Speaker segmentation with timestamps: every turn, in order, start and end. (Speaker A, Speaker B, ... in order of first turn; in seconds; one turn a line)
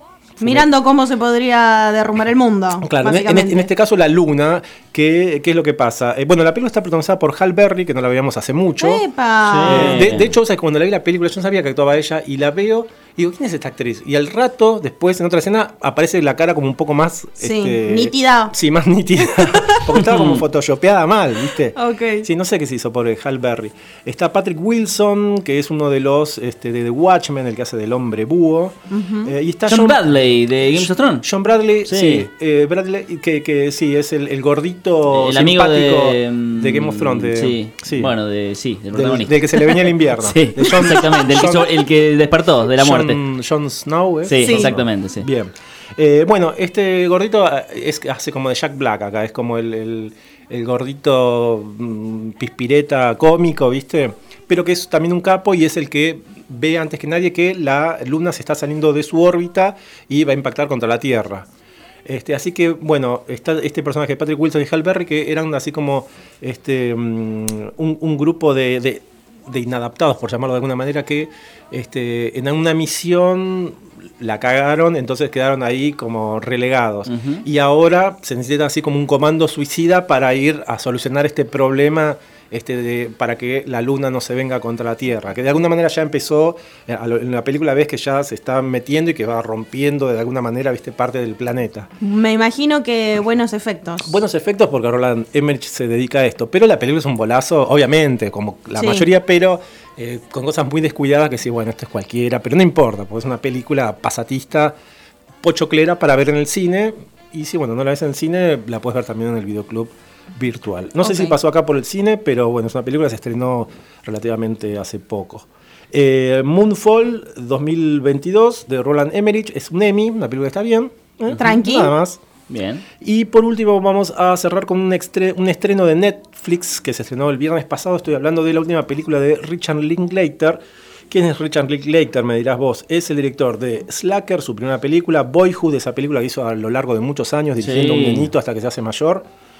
Speaker A: 0.4-0.7
Speaker B: 0.4-3.7
Speaker A: 2.8-9.1
Speaker B: 8.8-10.1
Speaker C: 9.4-10.3
Speaker A: 9.6-30.1
Speaker B: 17.4-18.5
Speaker B: 19.2-19.9
Speaker C: 20.0-20.4
Speaker B: 21.7-22.3
Speaker B: 28.9-29.3
Speaker C: 29.7-31.3
Speaker A: 30.6-38.1
Speaker C: 31.8-32.3
Speaker C: 35.1-43.2
Speaker A: 38.9-41.7
Speaker A: 42.8-61.5
Speaker C: 44.2-45.2
Speaker B: 44.4-44.8
Speaker A: 62.0-91.9
Speaker C: 77.1-77.4
Speaker B: 92.0-94.2
Speaker A: 94.0-104.7
Speaker B: 98.8-99.1
Speaker A: 105.4-122.2
Speaker B: 111.0-111.4
Speaker B: 121.4-121.9
Speaker C: 122.5-122.8
Speaker A: 123.0-130.6
Speaker A: 131.1-139.2
Speaker C: 137.6-138.3